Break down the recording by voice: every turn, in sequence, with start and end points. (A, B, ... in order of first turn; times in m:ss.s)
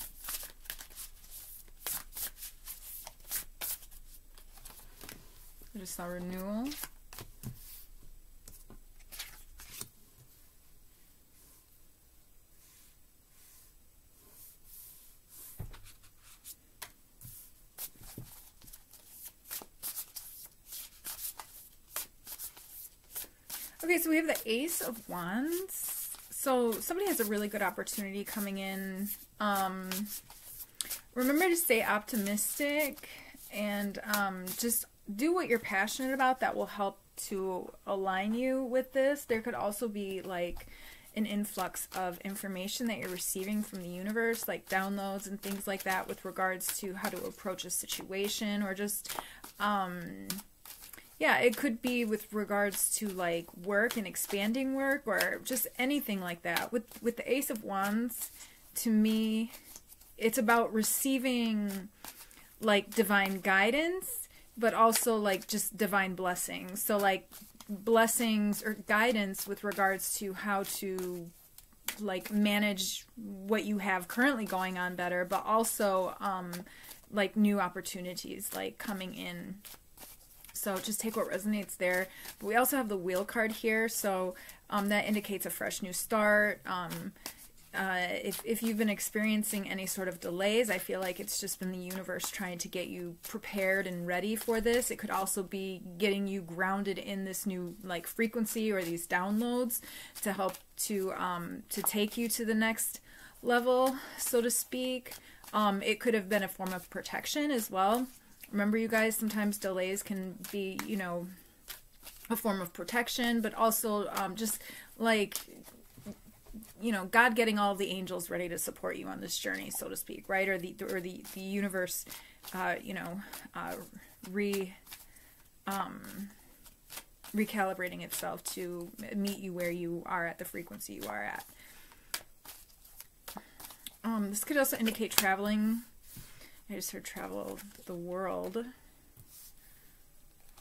0:05.7-0:06.8 A
0:23.8-0:30.1 A
0:31.1-0:50.4 A
0:51.2-0:59.5 A
1:00.2-1:01.9 A
1:02.6-1:11.3 A
1:12.0-1:19.6 A
1:20.5-1:27.2 A
1:27.7-1:51.3 A
1:52.3-1:55.6 A
1:56.8-2:04.8 A
2:05.7-2:06.3 A
2:07.3-2:11.5 A
2:14.0-2:15.8 A
2:16.7-2:18.7 A